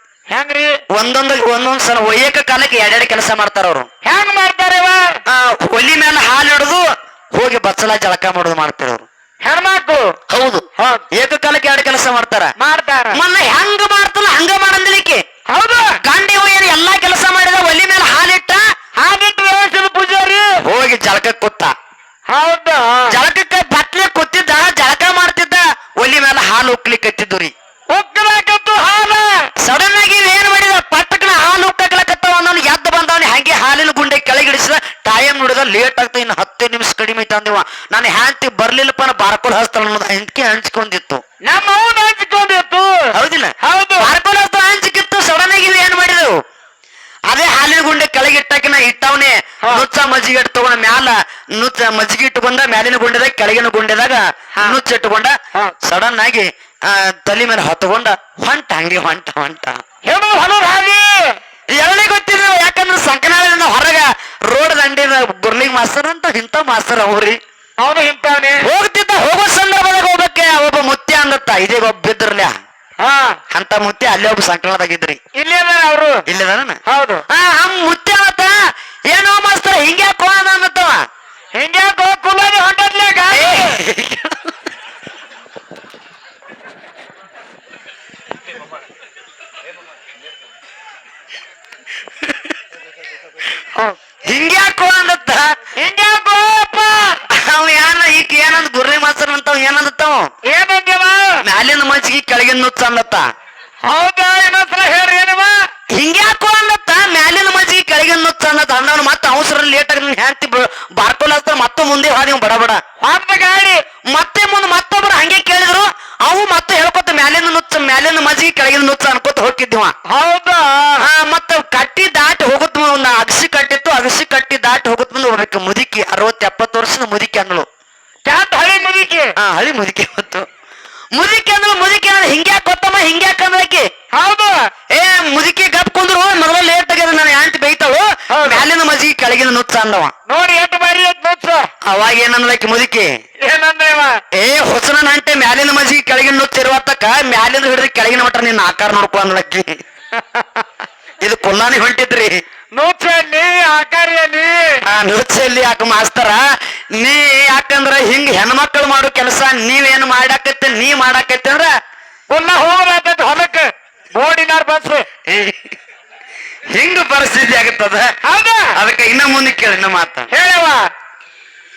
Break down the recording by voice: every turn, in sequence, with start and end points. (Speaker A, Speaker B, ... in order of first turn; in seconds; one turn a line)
Speaker A: 0.3-0.8
Speaker B: 0.9-3.9
Speaker A: 4.0-5.1
Speaker B: 5.3-9.1
Speaker A: 9.4-10.1
Speaker B: 10.3-12.5
Speaker A: 10.8-11.0
Speaker A: 12.6-13.2
Speaker B: 13.1-15.2
Speaker A: 15.5-16.0
Speaker B: 16.0-18.6
Speaker A: 19.0-20.5
Speaker B: 20.6-21.7
Speaker A: 22.3-23.1
Speaker B: 23.1-27.5
Speaker A: 27.9-29.5
Speaker B: 29.6-41.2
Speaker A: 41.5-43.1
Speaker B: 43.1-46.3
Speaker A: 43.6-44.1
Speaker B: 47.3-59.8
Speaker A: 60.0-61.4
Speaker B: 61.7-67.4
Speaker A: 67.8-68.6
Speaker B: 68.6-72.5
Speaker A: 73.0-73.4
Speaker B: 73.5-75.2
Speaker A: 75.3-76.2
Speaker B: 76.3-78.5
Speaker A: 76.9-77.2
Speaker B: 79.1-81.0
Speaker A: 81.5-83.8
Speaker B: 83.3-84.4
Speaker B: 94.2-95.5
Speaker A: 95.8-97.2
Speaker B: 97.3-100.3
Speaker A: 100.5-101.4
Speaker B: 101.4-103.2
Speaker A: 103.8-105.6
Speaker B: 105.9-112.8
Speaker A: 113.0-113.8
Speaker B: 114.1-119.9
Speaker A: 120.1-121.0
Speaker B: 121.0-127.7
Speaker A: 128.2-129.3
Speaker B: 129.4-130.4
Speaker B: 131.1-133.9
Speaker A: 134.1-134.7
Speaker B: 134.9-140.1
Speaker A: 138.3-138.6
Speaker A: 140.3-141.7
Speaker B: 141.8-143.1
Speaker A: 143.4-144.2
Speaker B: 144.3-149.8
Speaker A: 150.1-150.6
Speaker B: 151.2-152.4
Speaker A: 152.7-154.8
Speaker B: 154.9-156.4
Speaker B: 157.0-161.7
Speaker A: 162.3-165.1
Speaker B: 165.3-165.7
Speaker B: 166.7-168.1
Speaker A: 168.2-168.7
Speaker B: 168.7-170.3
Speaker A: 170.3-170.9